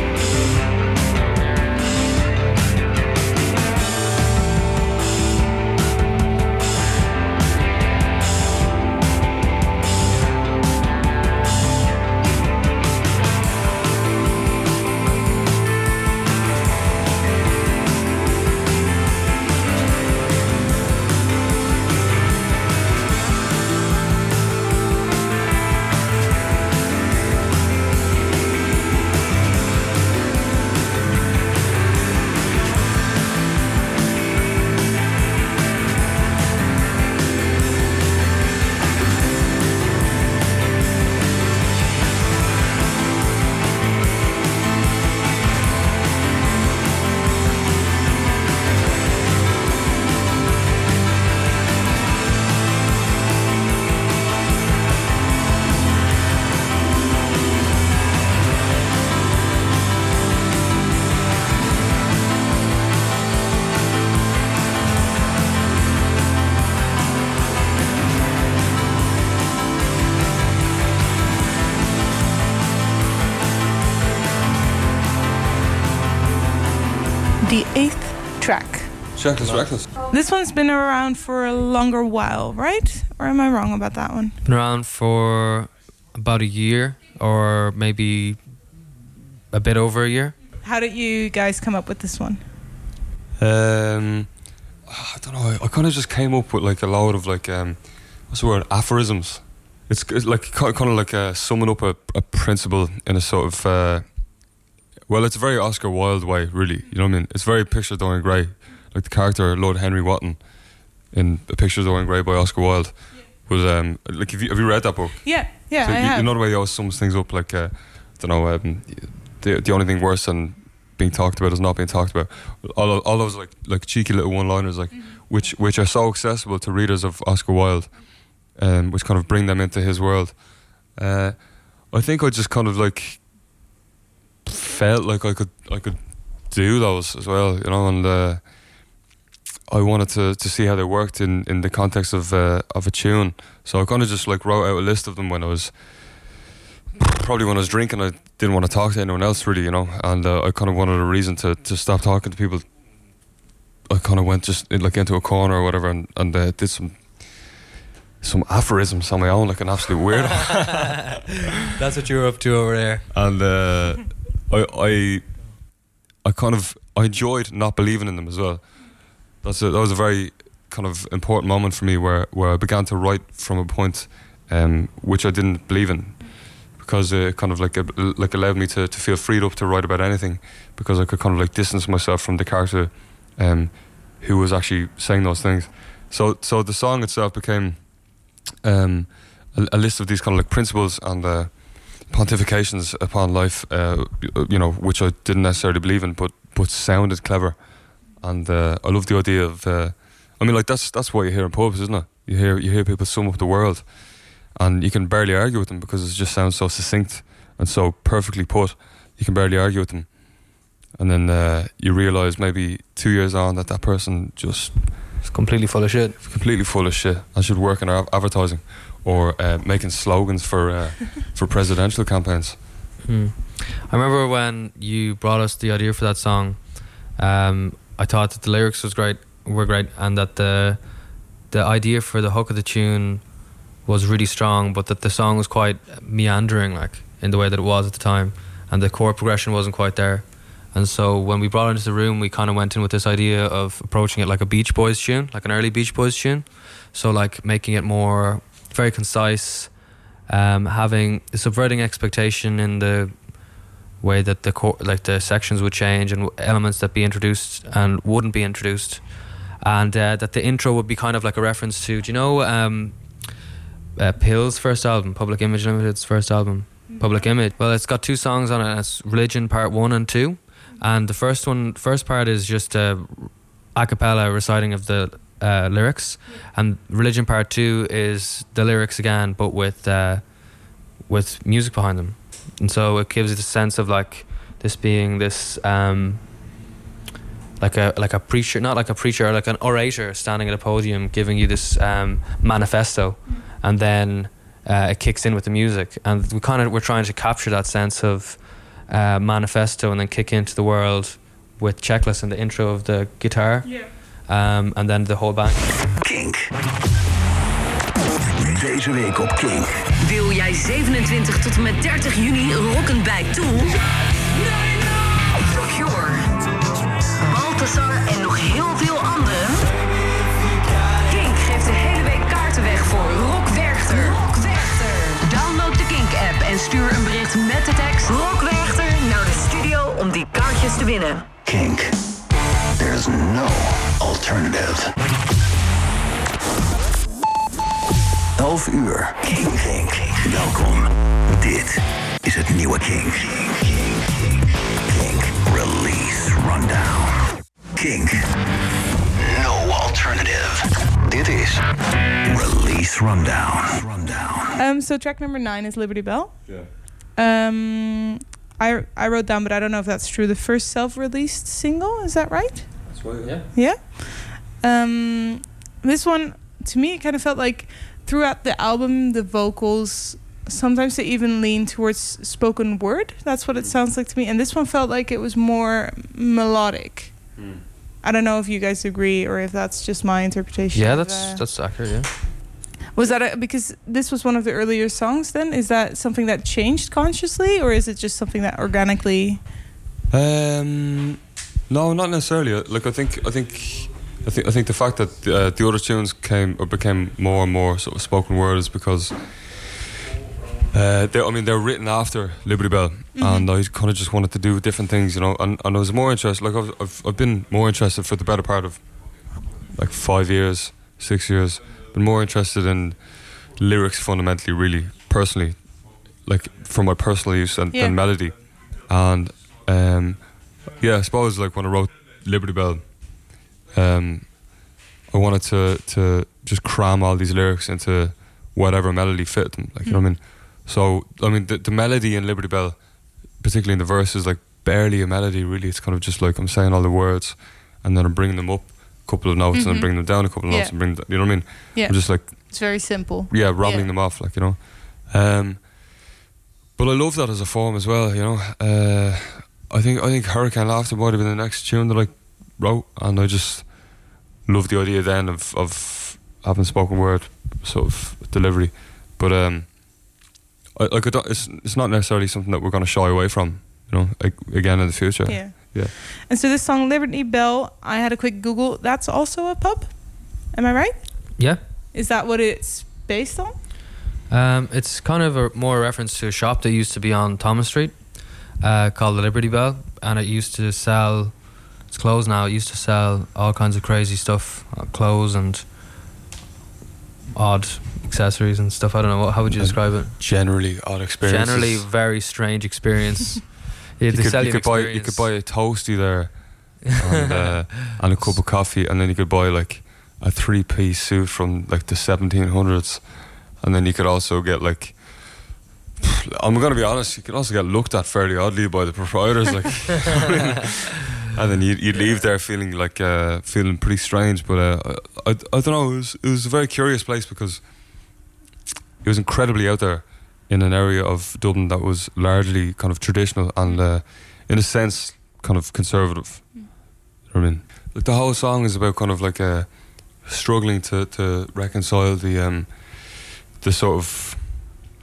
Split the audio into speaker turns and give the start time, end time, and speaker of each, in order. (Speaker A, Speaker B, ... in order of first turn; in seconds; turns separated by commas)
Speaker A: 77.4-78.9, Speaker B: 79.1-79.9, Speaker A: 80.1-84.4, Speaker C: 84.4-88.5, Speaker C: 89.5-90.3, Speaker A: 90.6-92.4, Speaker B: 93.4-94.3, Speaker B: 94.9-104.1, Speaker B: 105.1-133.5, Speaker A: 115.2-116.3, Speaker B: 134.4-138.5, Speaker B: 139.7-146.4, Speaker B: 147.0-152.7, Speaker B: 153.9-157.6, Speaker B: 158.2-161.1, Speaker C: 161.7-163.1, Speaker B: 163.1-165.4, Speaker B: 166.2-215.2, Speaker C: 215.2-216.2, Speaker B: 216.2-222.6, Speaker C: 223.0-263.4, Speaker C: 264.0-286.4, Speaker A: 266.9-267.1, Speaker C: 287.6-305.8, Speaker A: 303.6-303.9, Speaker D: 306.0-306.5, Speaker D: 308.3-309.8, Speaker E: 310.0-313.8, Speaker E: 314.4-314.7, Speaker E: 315.3-316.4, Speaker E: 317.2-319.7, Speaker E: 321.1-331.3, Speaker D: 331.4-331.9, Speaker D: 332.8-334.9, Speaker D: 338.4-344.2, Speaker D: 344.9-348.2, Speaker D: 349.2-351.6, Speaker D: 352.2-354.6, Speaker A: 354.6-362.9, Speaker B: 362.9-363.4, Speaker A: 363.5-377.4, Speaker B: 377.4-377.6, Speaker A: 378.0-381.4, Speaker C: 380.7-382.1, Speaker A: 382.9-389.5, Speaker B: 390.1-399.9, Speaker B: 400.7-408.9, Speaker A: 403.2-403.5, Speaker B: 409.6-446.0, Speaker A: 417.7-418.0, Speaker A: 439.5-443.9, Speaker B: 446.8-465.9, Speaker A: 465.2-473.6, Speaker C: 474.3-485.7, Speaker C: 487.3-490.5, Speaker B: 489.5-491.9, Speaker C: 491.2-495.3, Speaker B: 494.1-518.2, Speaker C: 497.1-498.4, Speaker B: 519.0-534.8